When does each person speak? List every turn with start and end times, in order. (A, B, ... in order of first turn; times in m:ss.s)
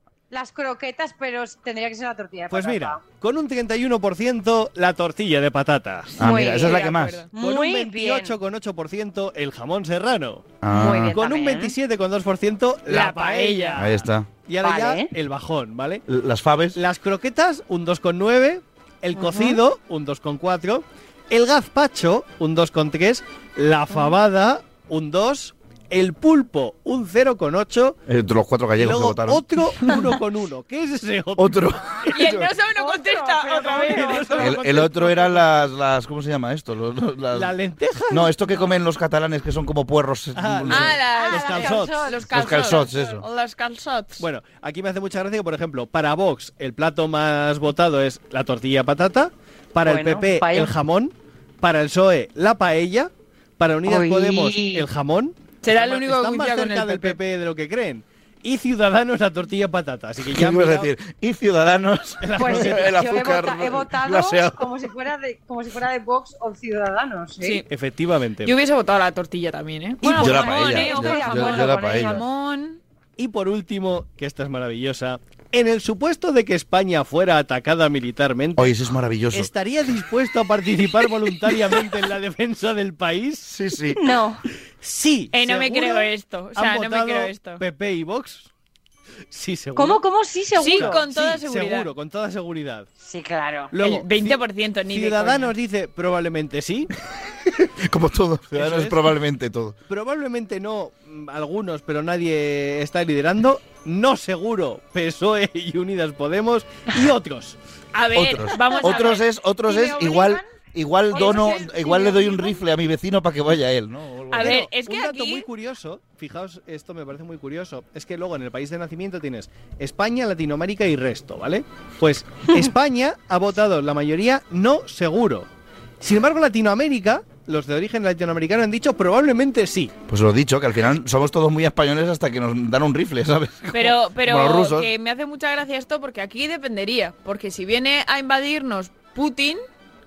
0:00.3-0:03.0 A
0:02.5-0:06.2 B
0:06.2-0:07.2 C
0:06.2-0:08.4 A
0:06.2-0:07.3 D
0:07.4-0:16.0 B
0:10.6-0:11.2 C
0:10.7-0:11.8 A
0:12.9-0:13.9 D
0:13.8-0:14.3 C
0:14.6-0:15.1 A
0:16.1-0:16.8 C
0:16.7-0:28.0 B
0:19.2-0:19.6 A
0:28.1-0:29.4 C
0:28.8-0:32.1 B
0:31.4-0:32.5 C
0:32.1-0:34.6 D
0:32.7-0:34.4 A
0:33.6-0:35.5 B
0:34.4-0:37.5 C
0:37.3-0:38.4 B
0:38.1-0:41.0 C
0:40.4-0:42.1 B
0:40.7-0:44.2 D
0:41.1-0:43.0 A
0:42.3-0:43.2 C
0:44.2-1:00.9 B
0:49.8-0:50.7 A
0:53.8-0:54.9 A
0:55.6-0:57.2 D
1:00.3-1:04.7 C
1:02.2-1:03.0 B
1:02.4-1:07.6 A
1:07.4-1:07.7 D
1:07.7-1:08.5 B
1:08.4-1:12.8 D
1:10.0-1:12.2 A
1:10.1-1:12.2 C
1:13.2-1:18.8 B
1:18.6-1:19.5 C
1:19.3-1:23.5 B
1:23.5-1:24.0 C
1:24.0-1:24.4 A
1:24.8-1:28.5 B
1:25.3-1:27.6 D
1:29.3-1:30.0 B
1:29.8-1:31.0 A
1:30.6-1:31.9 D
1:30.6-1:32.9 B
1:33.0-1:33.7 A
1:33.7-1:36.9 B
1:33.8-1:35.5 D
1:37.6-1:39.8 C
1:38.5-1:39.2 B
1:39.9-1:47.6 B
1:48.0-1:50.4 D
1:48.1-1:54.6 C
1:48.6-1:49.0 A
1:49.7-1:50.4 A
1:51.1-1:52.6 A
1:51.1-1:51.7 D
1:54.3-1:55.5 D
1:54.4-2:05.5 B
2:06.0-2:09.9 B
2:10.1-2:14.9 C
2:13.7-2:19.6 D